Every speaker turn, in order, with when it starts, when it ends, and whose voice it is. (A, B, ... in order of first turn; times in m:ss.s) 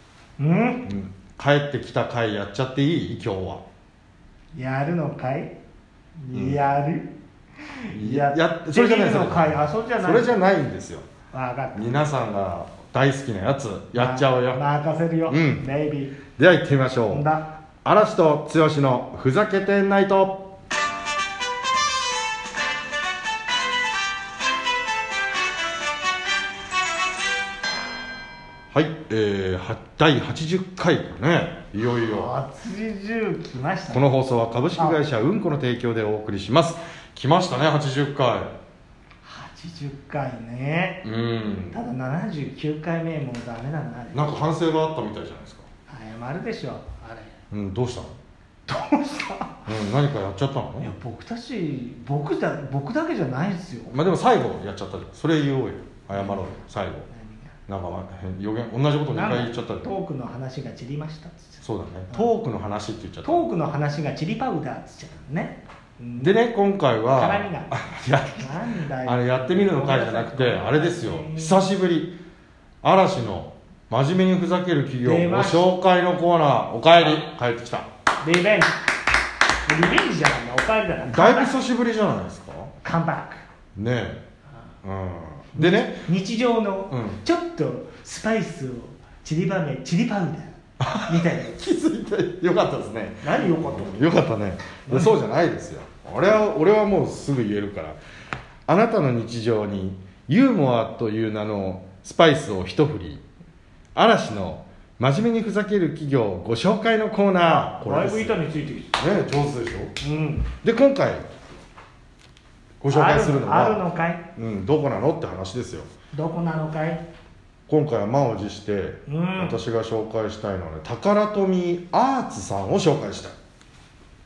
0:00.4-0:00.8 A
0:00.8-0:03.6 B
0:04.5-0:05.5 A
0:06.2-0:07.1 A
0:06.3-0:06.7 B
0:07.9-0:10.4 A
0:07.9-0:11.1 B
0:11.3-0:12.0 A
0:11.7-0:14.6 B
0:13.9-0:16.2 A
0:15.3-0:15.6 B
0:16.3-0:17.2 B
0:17.1-0:17.5 A
0:17.8-0:20.5 B
0:28.7-0:32.3 B
0:32.0-0:34.0 A
0:33.9-0:38.5 B
0:34.8-0:35.0 A
0:39.2-0:41.0 A
0:41.0-0:41.8 B
0:41.7-0:44.4 A
0:44.1-0:45.7 B
0:45.9-0:47.3 A
0:47.5-0:48.1 B
0:48.7-0:49.6 A
0:49.6-0:50.9 B
0:50.8-0:54.0 A
0:53.9-0:57.1 B
0:56.1-0:57.5 A
0:57.6-0:59.9 B
0:59.1-1:02.3 A
1:01.6-1:03.4 B
1:03.2-1:06.4 A
1:06.2-1:12.2 B
1:07.1-1:07.7 A
1:08.4-1:11.7 A
1:12.8-1:17.9 B
1:15.0-1:15.7 A
1:18.2-1:18.8 A
1:19.6-1:21.6 A
1:21.1-1:22.7 B
1:22.8-1:23.4 A
1:23.8-1:24.2 B
1:24.8-1:26.0 B
1:25.5-1:31.6 A
1:26.9-1:27.2 B
1:30.8-1:38.0 B
1:33.2-1:33.9 A
1:34.9-1:35.2 A
1:38.7-1:43.2 B
1:43.9-1:48.4 B
1:47.8-1:48.9 A
1:49.0-1:50.0 B
1:50.0-1:50.5 A
1:50.6-1:51.3 B
1:52.8-1:55.9 B
1:52.9-1:54.3 A
1:56.1-1:57.0 A
1:57.7-2:03.3 B
1:59.1-1:59.6 A